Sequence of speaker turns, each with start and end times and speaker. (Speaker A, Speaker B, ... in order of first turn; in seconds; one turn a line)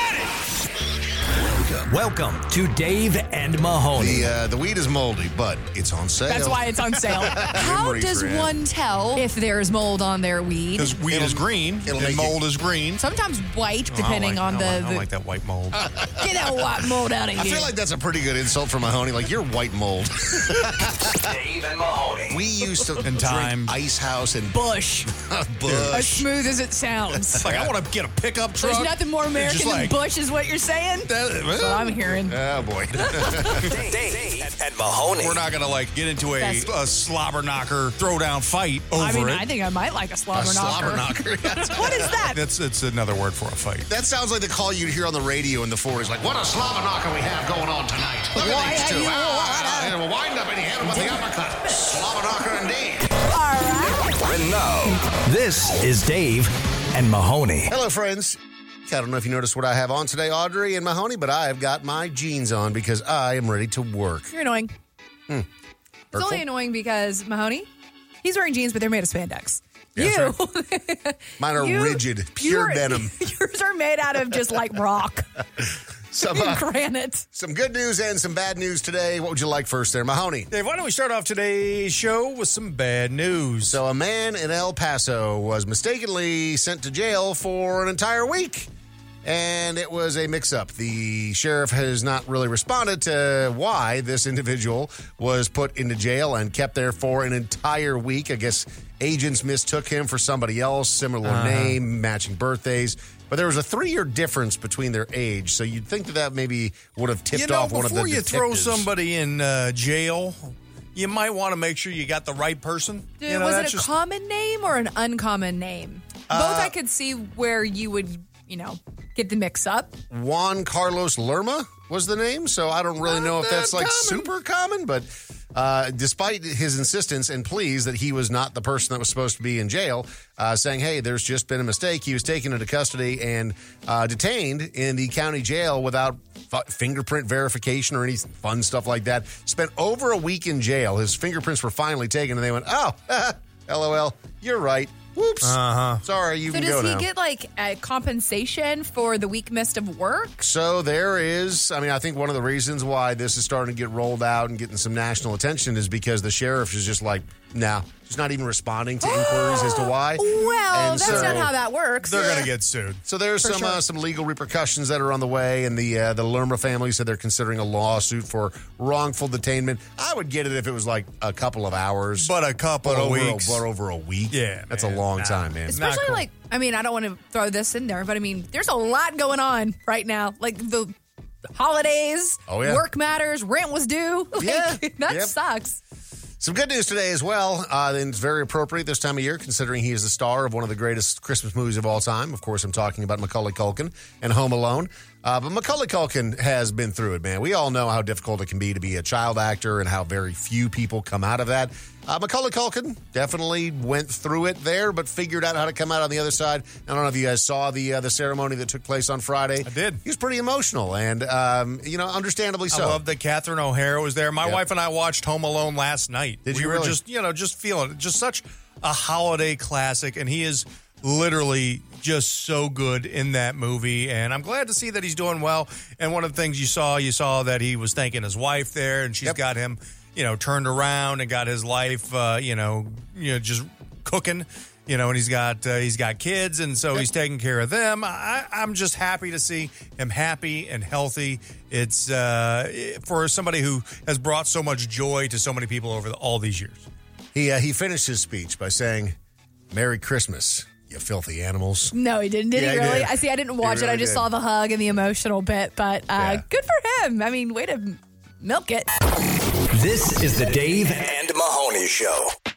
Speaker A: 1.7-4.3
Speaker B: 4.0-8.5
Speaker C: 6.3-11.0
Speaker D: 10.8-13.0
Speaker B: 11.1-12.4
Speaker C: 13.0-15.1
Speaker D: 13.9-15.9
Speaker B: 15.8-16.2
Speaker C: 16.2-17.7
Speaker B: 17.4-21.4
Speaker E: 21.2-22.4
Speaker B: 22.3-24.6
Speaker D: 23.0-23.8
Speaker C: 24.5-25.1
Speaker B: 25.1-26.3
Speaker D: 25.7-26.0
Speaker C: 25.9-27.4
Speaker B: 27.4-27.7
Speaker D: 27.4-30.0
Speaker C: 28.6-32.4
Speaker D: 31.1-32.0
Speaker B: 32.3-33.7
Speaker C: 33.2-33.6
Speaker D: 33.6-34.6
Speaker E: 33.7-35.4
Speaker D: 35.1-39.5
Speaker C: 36.4-36.7
Speaker C: 38.9-42.4
Speaker B: 40.3-42.1
Speaker D: 42.3-43.9
Speaker B: 43.9-53.1
Speaker C: 48.4-49.9
Speaker C: 50.9-51.2
Speaker C: 53.3-54.1
Speaker E: 54.2-55.0
Speaker A: 55.1-57.7
Speaker B: 57.7-64.3
Speaker C: 64.3-64.7
Speaker B: 66.1-66.5
Speaker C: 66.1-67.7
Speaker C: 68.2-75.3
Speaker B: 70.0-70.4
Speaker B: 71.4-73.2
Speaker B: 75.6-76.7
Speaker C: 76.2-77.2
Speaker B: 77.3-80.5
Speaker D: 80.5-83.8
Speaker B: 83.7-88.7
Speaker B: 89.2-108.9
Speaker D: 101.2-101.8
Speaker D: 107.3-113.9
Speaker C: 113.2-120.0
Speaker D: 116.3-116.7
Speaker B: 120.1-147.1
Speaker D: 123.1-124.3
Speaker D: 145.4-146.0
Speaker C: 146.5-150.3
Speaker B: 150.4-161.5
Speaker C: 159.0-162.5
Speaker D: 160.9-161.5
Speaker D: 162.0-163.0
Speaker B: 163.1-172.3
Speaker C: 163.4-163.8
Speaker D: 172.2-173.6
Speaker B: 172.8-175.9
Speaker D: 174.3-176.2
Speaker C: 175.7-180.9
Speaker C: 181.6-185.8
Speaker B: 182.5-182.8
Speaker B: 184.4-185.4
Speaker B: 186.4-213.0
Speaker D: 209.7-210.0
Speaker D: 212.7-246.9
Speaker B: 216.5-217.0
Speaker B: 247.3-249.2
Speaker B: 249.7-251.9
Speaker C: 251.9-258.9
Speaker B: 252.5-254.3
Speaker B: 256.1-256.4
Speaker A: 259.7-261.1
Speaker E: 261.0-262.3